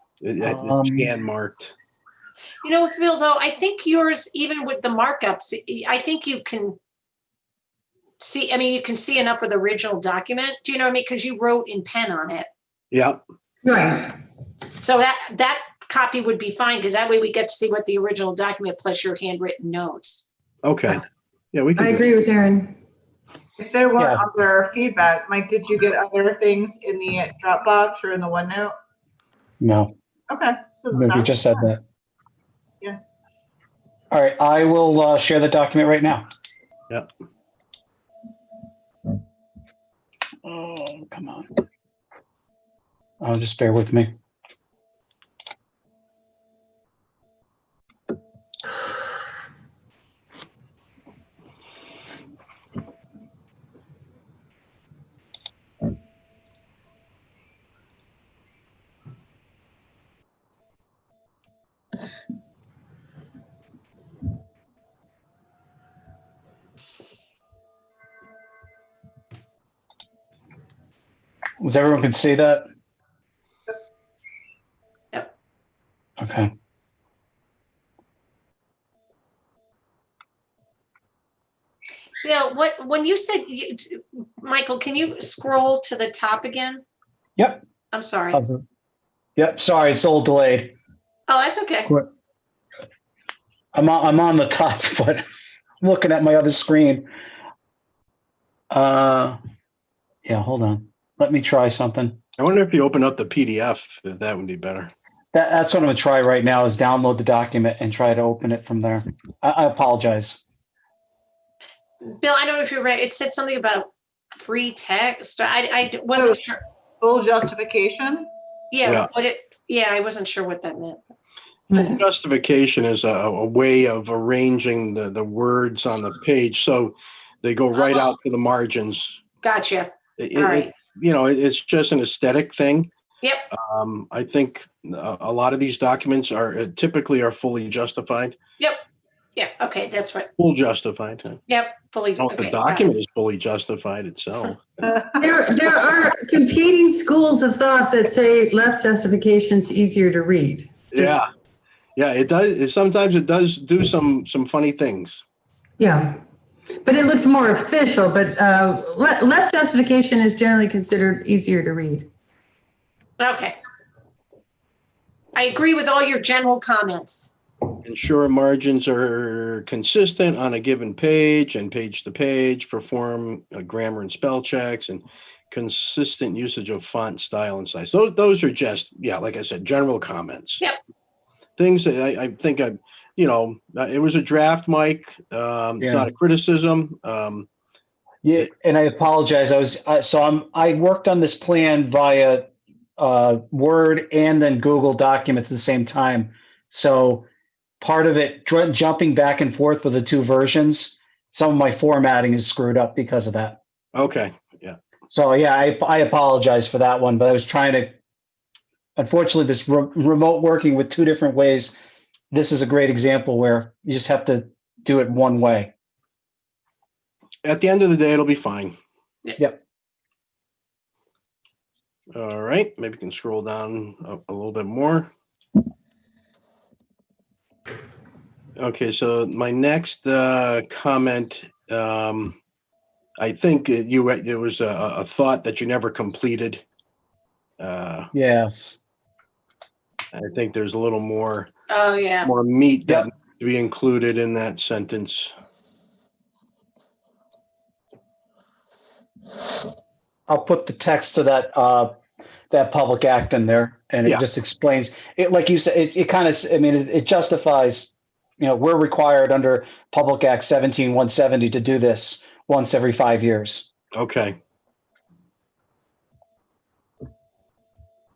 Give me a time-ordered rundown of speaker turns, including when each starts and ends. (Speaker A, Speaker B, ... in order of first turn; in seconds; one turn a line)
Speaker A: 0.2-1.7
Speaker B: 0.4-1.1
Speaker C: 2.6-6.8
Speaker C: 8.2-12.5
Speaker A: 12.9-13.2
Speaker D: 13.6-14.1
Speaker C: 14.8-20.2
Speaker A: 20.6-22.2
Speaker D: 21.8-22.8
Speaker E: 23.6-28.7
Speaker B: 24.0-24.2
Speaker B: 29.6-29.9
Speaker E: 30.3-31.4
Speaker B: 30.9-31.8
Speaker B: 34.1-36.2
Speaker B: 40.4-41.5
Speaker B: 43.2-44.1
Speaker B: 71.6-72.7
Speaker B: 76.2-76.5
Speaker C: 82.2-86.8
Speaker B: 87.4-87.6
Speaker C: 87.9-88.4
Speaker B: 88.3-88.6
Speaker B: 89.4-90.7
Speaker C: 91.3-91.9
Speaker B: 93.7-95.2
Speaker B: 95.8-97.1
Speaker B: 98.7-99.4
Speaker B: 100.2-102.2
Speaker A: 102.4-104.9
Speaker B: 105.3-110.4
Speaker C: 112.0-116.6
Speaker E: 116.1-118.3
Speaker C: 118.7-121.0
Speaker A: 118.8-119.1
Speaker D: 121.7-122.0
Speaker A: 121.7-129.2
Speaker C: 127.7-128.1
Speaker C: 129.4-130.7
Speaker A: 130.2-132.9
Speaker C: 133.2-133.5
Speaker A: 133.5-138.3
Speaker C: 139.3-140.3
Speaker A: 140.4-141.4
Speaker C: 141.5-142.9
Speaker A: 142.2-144.6
Speaker E: 144.8-145.1
Speaker D: 145.2-150.7
Speaker A: 150.9-151.3
Speaker A: 151.9-155.2
Speaker D: 155.8-156.2
Speaker D: 156.8-162.1
Speaker C: 163.2-163.6
Speaker C: 165.3-167.3
Speaker A: 167.8-180.6
Speaker A: 181.6-187.5
Speaker B: 185.8-186.1
Speaker B: 188.2-197.2
Speaker B: 197.8-203.6
Speaker A: 203.9-204.8
Speaker B: 205.1-207.9
Speaker B: 209.0-211.7
Speaker B: 212.3-215.7
Speaker A: 217.4-218.8
Speaker A: 222.1-225.1
Speaker A: 228.6-232.4
Speaker A: 233.2-236.6
Speaker A: 237.6-238.1
Speaker B: 238.1-238.8
Speaker A: 240.1-241.5
Speaker C: 241.7-242.3
Speaker A: 242.2-245.3
Speaker B: 250.3-251.9
Speaker B: 252.5-263.7
Speaker A: 264.0-264.4